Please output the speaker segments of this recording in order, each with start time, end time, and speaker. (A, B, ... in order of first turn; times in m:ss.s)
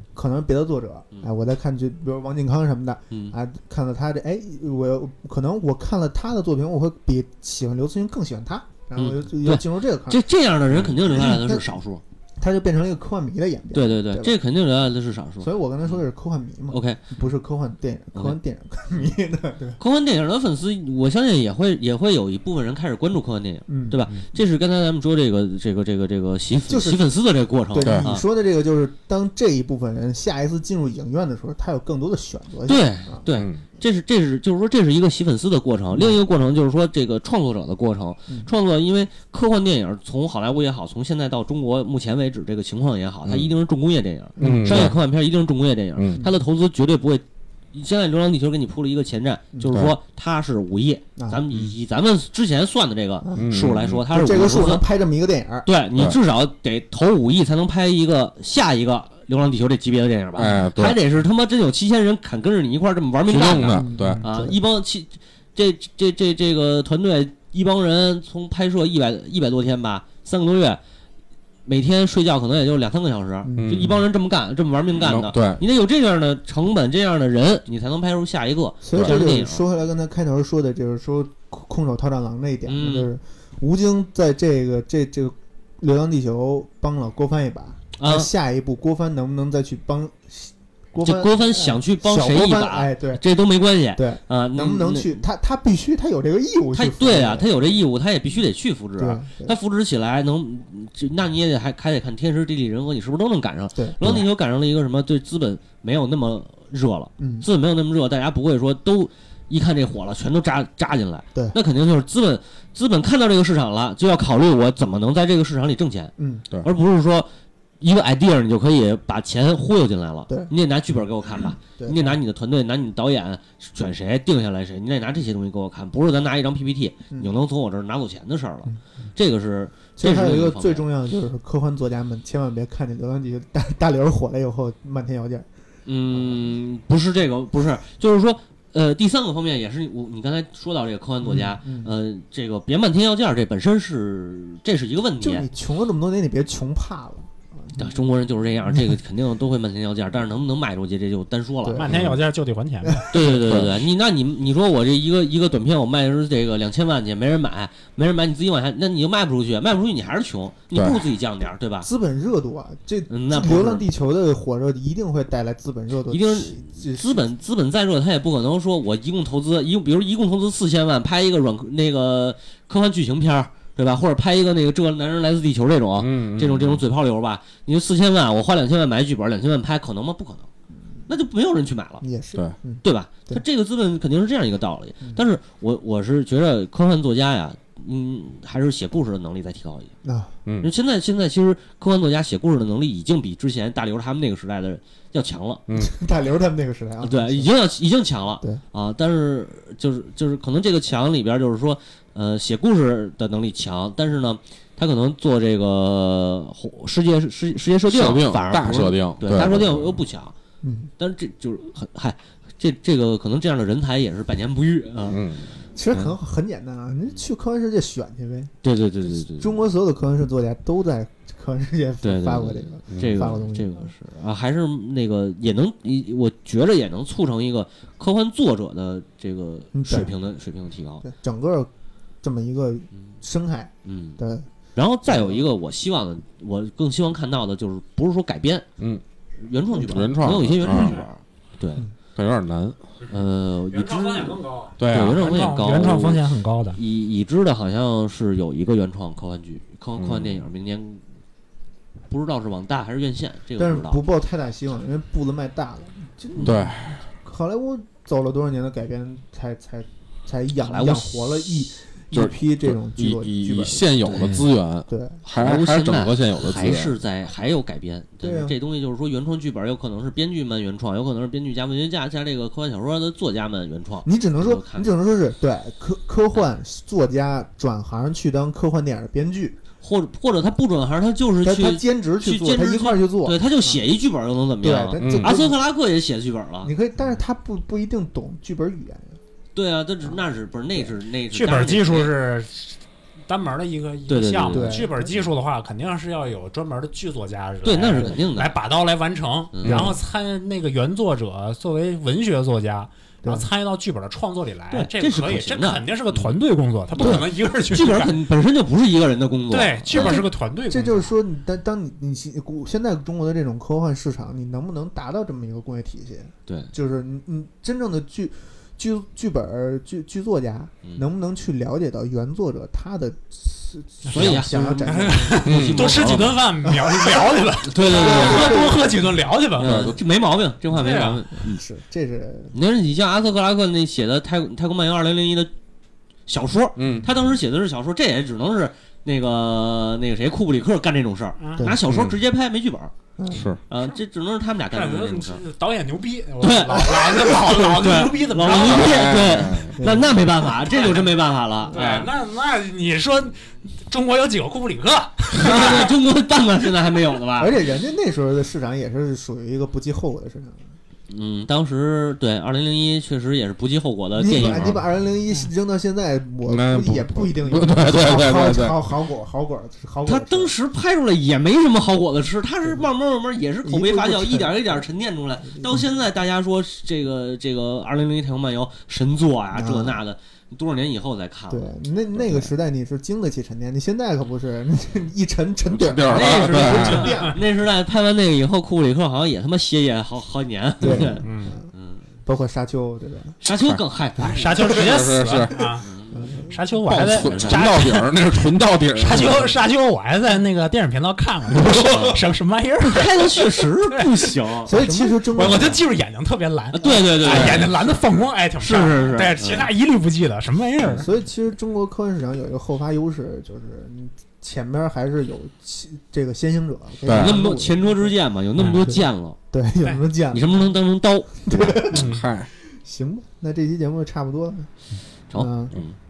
0:00.1-0:10.2 A
0:03.1-0:03.4 B
0:09.0-0:12.0 B
0:11.0-0:11.6 A
0:12.4-0:14.4 A
0:13.7-0:16.0 B
0:15.4-0:19.8 A
0:16.7-0:17.0 B
0:19.8-0:28.2 B
0:23.7-0:24.2 A
0:26.7-0:27.0 A
0:27.7-0:33.2 A
0:27.8-0:28.1 C
0:32.7-0:54.8 B
0:33.3-0:33.6 C
0:43.2-0:43.5 C
0:44.4-0:44.9 A
0:44.4-0:45.0 C
0:45.9-0:46.2 C
0:49.5-0:49.8 A
0:51.2-0:51.7 A
0:53.2-0:55.7 A
0:53.3-0:54.0 C
0:55.6-1:10.8 B
1:00.3-1:01.0 C
1:03.3-1:04.2 C
1:03.7-1:04.6 A
1:11.6-1:19.6 B
1:13.4-1:14.0 A
1:13.6-1:14.0 C
1:15.0-1:15.6 C
1:18.8-1:33.2 A
1:18.9-1:19.2 C
1:22.6-1:23.1 B
1:28.0-1:28.3 B
1:31.0-1:35.2 B
1:33.9-1:37.5 A
1:36.7-1:57.3 B
1:39.0-1:39.5 A
1:43.7-1:44.2 A
1:47.2-1:47.5 A
1:56.2-1:56.5 A
1:57.8-2:10.8 B
2:01.8-2:02.2 A
2:10.0-2:15.5 A
2:15.8-2:25.5 B
2:16.1-2:16.5 A
2:21.2-2:21.9 A
2:25.2-2:28.0 A
2:27.8-2:31.9 B
2:31.6-2:32.1 A
2:31.8-2:33.1 D
2:31.9-2:32.2 C
2:32.8-2:33.2 A
2:33.1-2:41.9 B
2:33.3-2:33.7 C
2:40.7-2:41.0 C
2:41.8-2:47.3 A
2:43.1-2:43.9 B
2:46.1-3:00.5 B
2:56.0-2:56.8 C
3:01.1-3:02.0 B
3:02.0-3:03.4 A
3:02.8-3:09.9 B
3:10.0-3:10.3 A
3:10.6-3:15.6 B
3:15.7-3:15.9 C
3:15.8-3:17.5 A
3:17.0-3:30.3 B
3:27.9-3:30.0 C
3:30.6-3:30.9 A
3:31.0-3:35.2 B
3:35.1-3:35.5 C
3:35.7-3:38.5 A
3:38.6-3:39.6 B
3:39.1-3:43.8 A
3:42.0-3:51.0 B
3:49.7-3:50.1 A
3:51.0-3:51.7 A
3:52.2-3:54.5 A
3:53.8-3:54.2 B
3:54.7-3:58.6 B
3:55.1-3:55.4 A
3:59.4-4:01.8 B
3:59.8-4:01.0 C
4:02.2-4:02.8 C
4:03.1-4:11.0 B
4:03.7-4:06.8 D
4:04.8-4:05.2 C
4:10.0-4:10.4 C
4:12.1-4:14.0 B
4:13.6-4:24.4 A
4:16.4-4:17.0 C
4:20.6-4:21.6 B
4:22.1-4:27.0 C
4:24.0-4:24.5 B
4:24.9-4:25.2 A
4:25.3-4:34.9 B
4:28.2-4:28.6 A
4:34.0-4:39.6 A
4:39.8-4:46.7 B
4:41.4-4:43.8 A
4:44.6-4:45.6 A
4:45.0-4:45.4 C
4:46.6-4:49.2 A
4:49.5-4:52.1 B
4:51.3-5:08.2 D
4:54.1-4:54.9 B
4:54.5-4:55.2 A
4:57.6-4:58.6 B
4:59.5-4:59.9 B
4:59.6-5:00.0 C
5:03.2-5:03.5 A
5:04.7-5:06.3 B
5:07.0-5:10.2 B
5:09.5-5:11.1 D
5:09.9-5:25.5 A
5:16.5-5:16.7 B
5:24.0-5:29.8 D
5:24.1-5:26.4 B
5:25.4-5:26.3 C
5:26.6-5:29.1 A
5:27.6-5:28.6 B
5:29.6-5:31.6 B
5:29.6-5:30.0 C
5:30.7-5:31.2 D
5:31.4-5:32.5 A
5:32.5-5:35.5 B
5:36.3-5:42.9 B
5:36.8-5:37.1 C
5:41.4-5:41.7 D
5:41.8-5:42.2 C
5:43.2-5:43.5 A
5:43.3-5:43.6 C
5:43.7-5:45.4 B
5:44.7-5:49.4 D
5:46.4-5:52.1 B
5:47.0-5:47.7 A
5:48.5-5:49.8 C
5:49.8-5:50.5 A
5:50.7-5:51.0 D
5:51.7-5:52.0 A
5:51.7-5:55.9 D
5:55.3-5:57.5 B
5:57.4-6:00.6 A
6:01.1-6:04.8 B
6:04.1-6:10.5 A
6:04.3-6:04.8 C
6:06.4-6:08.8 C
6:10.0-6:22.5 B
6:13.6-6:14.6 A
6:15.5-6:15.8 A
6:19.5-6:20.0 A
6:21.5-6:27.4 A
6:25.7-6:27.1 C
6:26.1-6:32.0 B
6:26.2-6:27.4 D
6:30.8-6:31.7 A
6:31.2-6:31.6 D
6:32.2-6:33.4 A
6:33.4-6:34.8 B
6:34.2-6:35.9 D
6:34.6-6:35.6 C
6:35.8-6:36.4 B
6:36.1-6:36.6 A
6:36.5-6:51.1 D
6:36.8-6:39.5 C
6:37.1-6:37.6 B
6:41.6-6:42.0 C
6:41.7-6:42.2 B
6:42.9-6:44.8 B
6:44.6-6:45.8 A
6:46.7-6:48.0 B
6:47.2-6:48.0 C
6:48.6-6:49.7 B
6:50.8-6:51.0 B
6:50.9-6:58.2 A
6:57.0-6:57.4 C
6:57.1-6:59.4 B
6:58.6-6:58.8 D
6:58.7-7:00.7 A
7:00.3-7:01.9 B
7:01.4-7:02.1 A
7:01.7-7:02.5 C
7:01.9-7:02.3 D
7:02.7-7:04.7 A
7:05.3-7:06.0 B
7:05.3-7:05.8 A